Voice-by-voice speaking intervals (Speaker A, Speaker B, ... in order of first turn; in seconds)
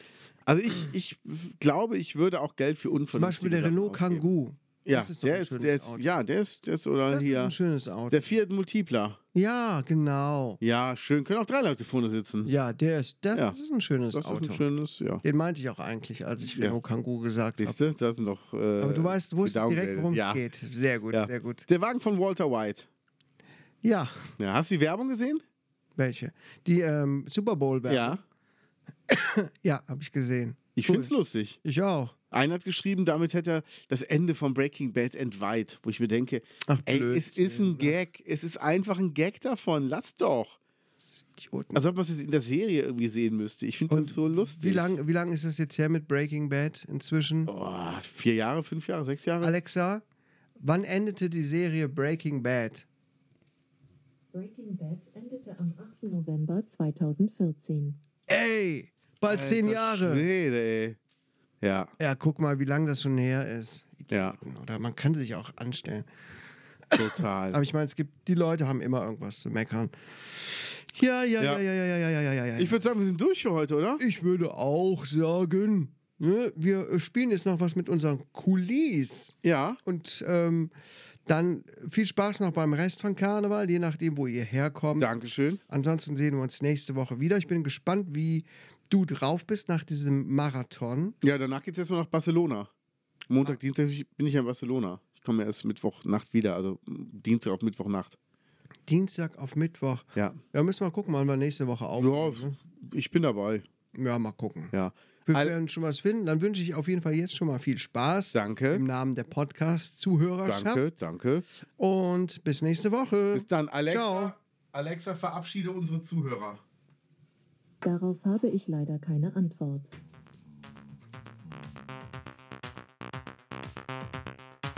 Speaker A: 0.5-4.2, 4.8-7.5, 8.1-9.2, 10.6-12.5, 14.1-15.2, 17.6-20.4, 21.1-22.9, 24.4-25.4, 27.9-28.2, 30.8-31.6, 32.3-40.6, 41.7-44.9, 47.5-49.5, 59.2-61.0, 61.6-61.9, 64.1-64.4, 66.9-67.6, 72.6-74.0, 79.4-79.8, 85.0-85.6, 91.2-92.7, 93.3-98.2, 102.0-103.7, 104.7-105.5, 108.3-108.8, 110.4-111.4, 113.3-116.6
Speaker B: 3.1-6.0, 7.1-8.2, 9.3-10.6, 12.4-14.6, 15.2-17.8, 18.8-21.6, 23.8-24.3, 25.9-28.2, 29.1-31.1, 31.6-32.1, 36.7-38.0, 41.3-41.8, 43.9-47.5, 49.4-50.0, 50.6-52.9, 58.3-60.2, 62.0-66.1, 66.9-72.8, 74.0-80.7, 81.2-85.1, 85.7-91.2, 98.9-102.6, 103.9-104.7, 105.3-110.8, 111.8-114.3
Speaker C: 54.3-58.0, 117.8-119.9